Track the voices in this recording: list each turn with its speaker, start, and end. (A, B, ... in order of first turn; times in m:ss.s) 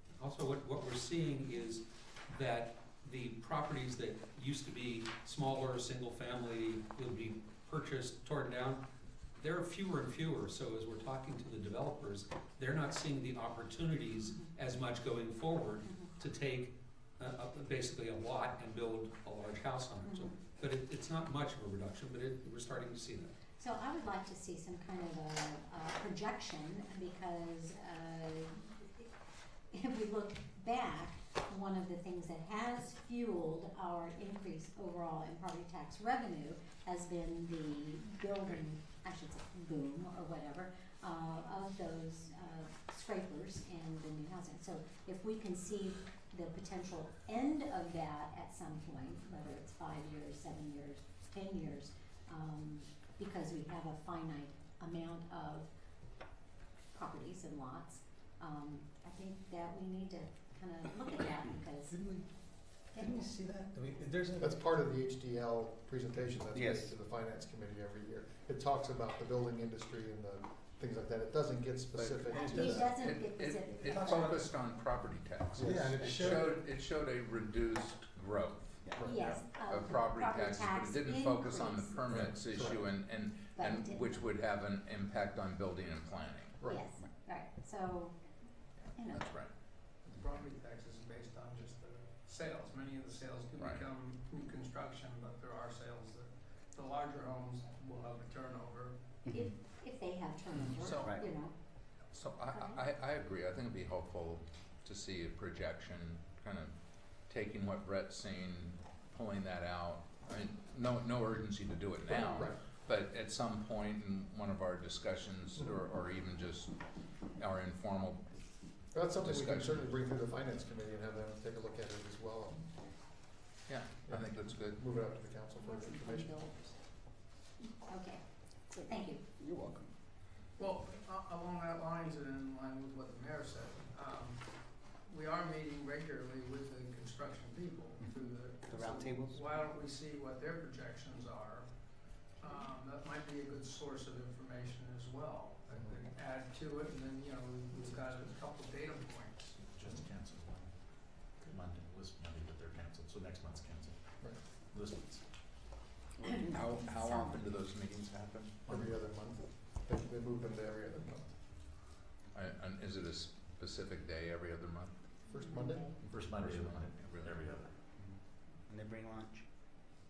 0:00.2-0:08.8 A
0:09.4-0:23.3 A
0:15.8-0:16.1 B
0:23.6-0:29.1 B
0:29.7-0:55.7 B
0:56.9-1:01.9 B
1:02.9-1:03.3 B
1:04.4-1:13.0 C
1:06.5-1:06.9 D
1:11.9-1:26.6 E
1:12.3-1:14.4 B
1:15.6-1:16.5 C
1:18.9-1:19.3 C
1:19.0-1:22.3 B
1:22.1-1:22.9 C
1:23.6-1:24.2 B
1:26.6-1:26.9 C
1:26.7-1:28.2 B
1:28.8-1:29.5 E
1:28.9-1:29.2 B
1:30.2-1:36.2 F
1:33.5-1:33.9 E
1:36.8-1:38.9 F
1:39.2-1:39.5 D
1:39.3-1:41.5 B
1:41.0-1:41.2 D
1:42.1-1:46.7 E
1:42.5-1:42.8 B
1:47.3-1:56.8 E
1:52.1-1:52.6 C
1:57.4-1:58.2 E
1:58.9-2:02.7 C
1:59.2-1:59.8 E
2:03.7-2:04.8 E
2:04.0-2:06.5 C
2:05.6-2:06.8 B
2:07.6-2:09.2 B
2:09.4-2:09.9 D
2:10.6-2:14.4 F
2:15.1-2:21.6 F
2:18.0-2:19.5 D
2:22.4-2:29.4 F
2:25.7-2:26.0 C
2:29.6-2:30.8 G
2:31.3-2:34.0 G
2:34.7-2:35.2 G
2:36.2-2:38.9 E
2:36.3-2:37.4 B
2:38.7-2:41.3 C
2:42.3-2:44.9 E
2:45.3-2:45.9 C
2:45.4-2:45.9 B
2:46.0-2:47.8 G
2:46.3-2:47.4 E
2:48.0-2:49.5 D